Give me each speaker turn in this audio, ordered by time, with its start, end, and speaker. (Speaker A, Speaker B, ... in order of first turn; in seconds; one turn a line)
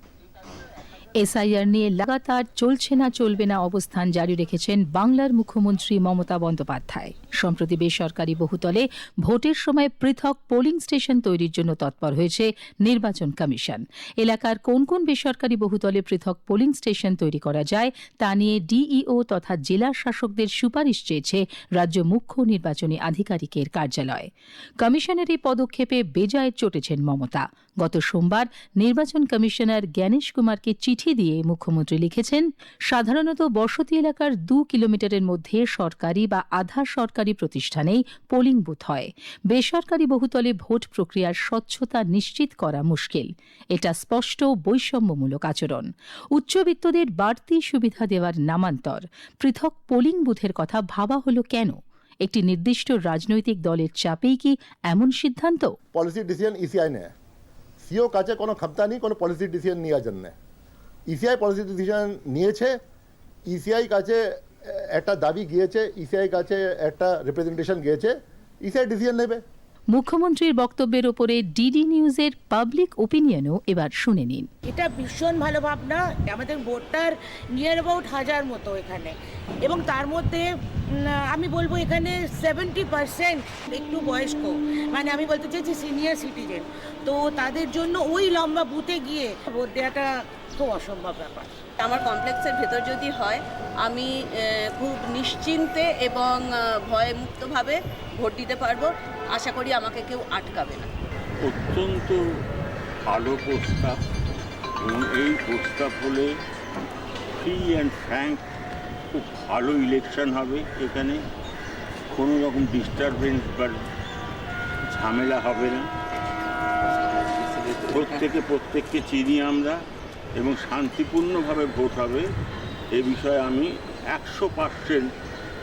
Speaker A: 1.2-24.3
Speaker A: 24.8-55.8
Speaker B: 55.9-57.1
Speaker B: 57.8-60.4
Speaker B: 61.1-62.8
Speaker B: 63.5-69.4
Speaker A: 69.9-74.5
Speaker C: 74.7-80.5
Speaker C: 81.1-91.7
Speaker D: 91.8-100.9
Speaker E: 101.4-102.2
Speaker E: 103.1-104.0
Speaker E: 104.8-106.3
Speaker E: 107.4-108.5
Speaker E: 109.1-111.2
Speaker E: 112.1-113.8
Speaker E: 114.9-115.9
Speaker E: 117.8-119.8
Speaker E: 120.4-122.3
Speaker E: 123.0-125.1